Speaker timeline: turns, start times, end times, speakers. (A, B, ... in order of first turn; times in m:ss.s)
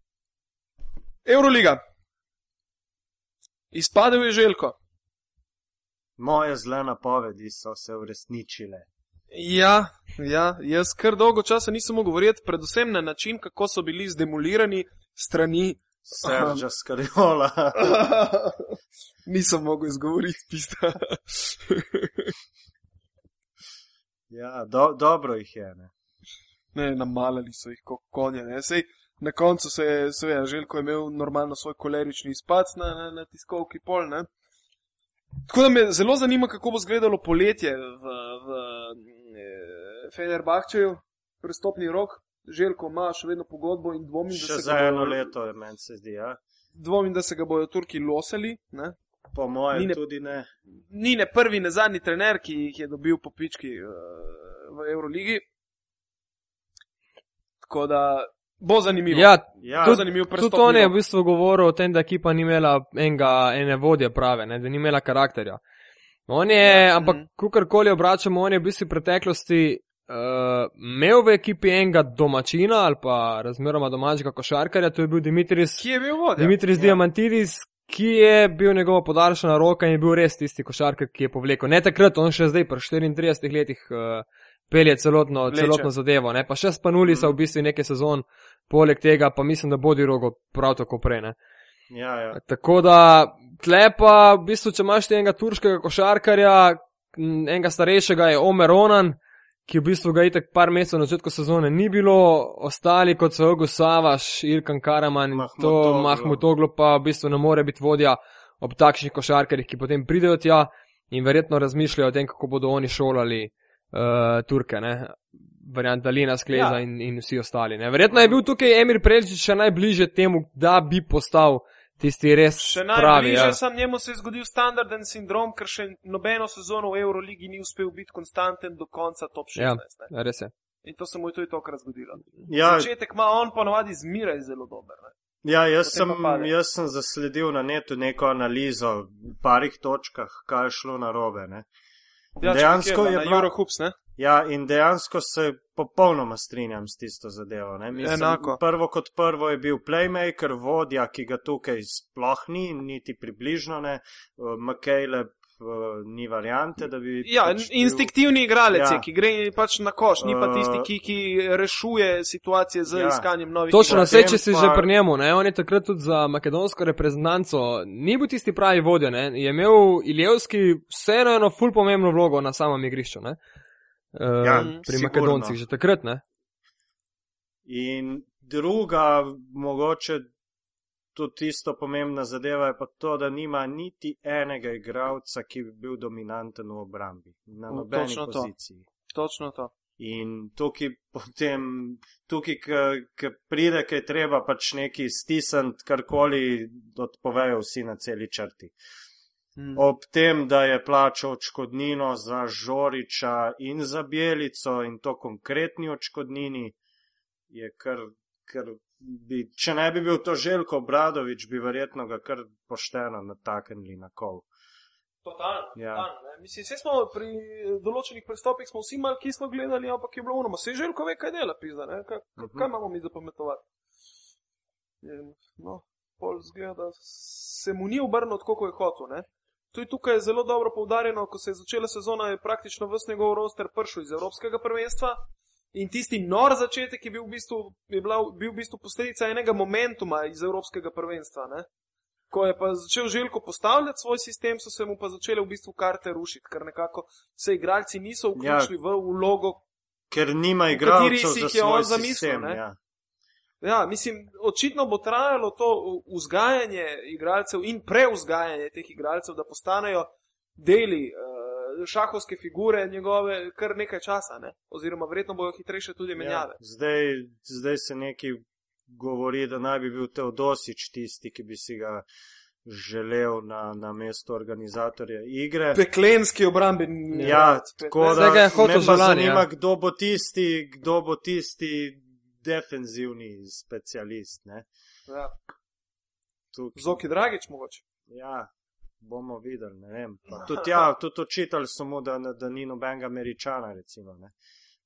0:01.2-0:01.8 A
0:03.7-0:04.8 A
0:06.2-0:08.9 B
0:09.3-0:16.6 A
0:16.0-0:17.9 B
0:17.7-0:18.7 A
0:19.2-0:22.3 A
0:24.3-0:25.9 B
0:26.7-0:34.3 A
0:35.5-0:45.3 A
0:44.3-0:46.4 B
0:46.7-0:48.9 A
0:49.3-0:50.5 B
0:49.7-0:50.0 A
0:50.7-0:55.4 A
0:57.6-1:00.9 A
0:59.1-1:05.6 C
0:59.6-1:00.0 B
1:06.3-1:15.8 C
1:06.6-1:07.2 A
1:15.8-1:17.0 A
1:16.4-1:31.3 C
1:25.5-1:25.9 A
1:27.1-1:27.3 B
1:31.9-1:32.4 B
1:32.3-2:03.6 C
1:45.3-1:46.4 B
1:56.5-1:56.8 B
1:58.1-1:58.4 A
2:02.6-2:10.1 A
2:09.6-2:10.5 C
2:10.8-2:15.1 A
2:12.5-2:12.9 B
2:15.4-2:21.7 B
2:15.8-2:16.5 A
2:22.4-2:23.9 A
2:22.4-2:23.5 B
2:24.2-2:38.1 B
2:28.0-2:28.6 A
2:37.2-2:44.4 A
2:38.7-2:39.0 B
2:40.2-2:40.9 B
2:42.9-2:43.2 B
2:43.7-2:53.4 C
2:43.8-2:44.9 B
2:54.1-2:56.2 C
2:54.4-2:55.6 B
2:54.6-2:54.8 A
2:57.6-3:00.3 B
3:01.1-3:08.8 B
3:07.7-3:08.5 A
3:09.1-3:09.7 A
3:10.0-3:18.7 B
3:19.6-3:19.8 A
3:19.8-3:26.8 B
3:27.5-3:34.4 B
3:35.2-3:43.6 A
3:35.8-3:36.1 B
3:42.4-3:42.7 B
3:45.0-4:01.7 A
4:02.3-4:09.6 A
4:08.4-4:08.7 B
4:10.1-4:12.8 B
4:10.7-4:12.6 A
4:13.6-4:26.6 A
4:26.2-4:32.0 B
4:32.6-4:35.8 B
4:35.7-4:38.8 A
4:37.1-4:37.4 C
4:37.2-4:44.7 B
4:38.0-4:39.4 C
4:45.1-4:45.3 A
4:46.5-4:47.0 B
4:46.7-4:47.8 A
4:48.1-4:48.5 B
4:49.0-4:54.3 B
4:50.3-4:50.8 A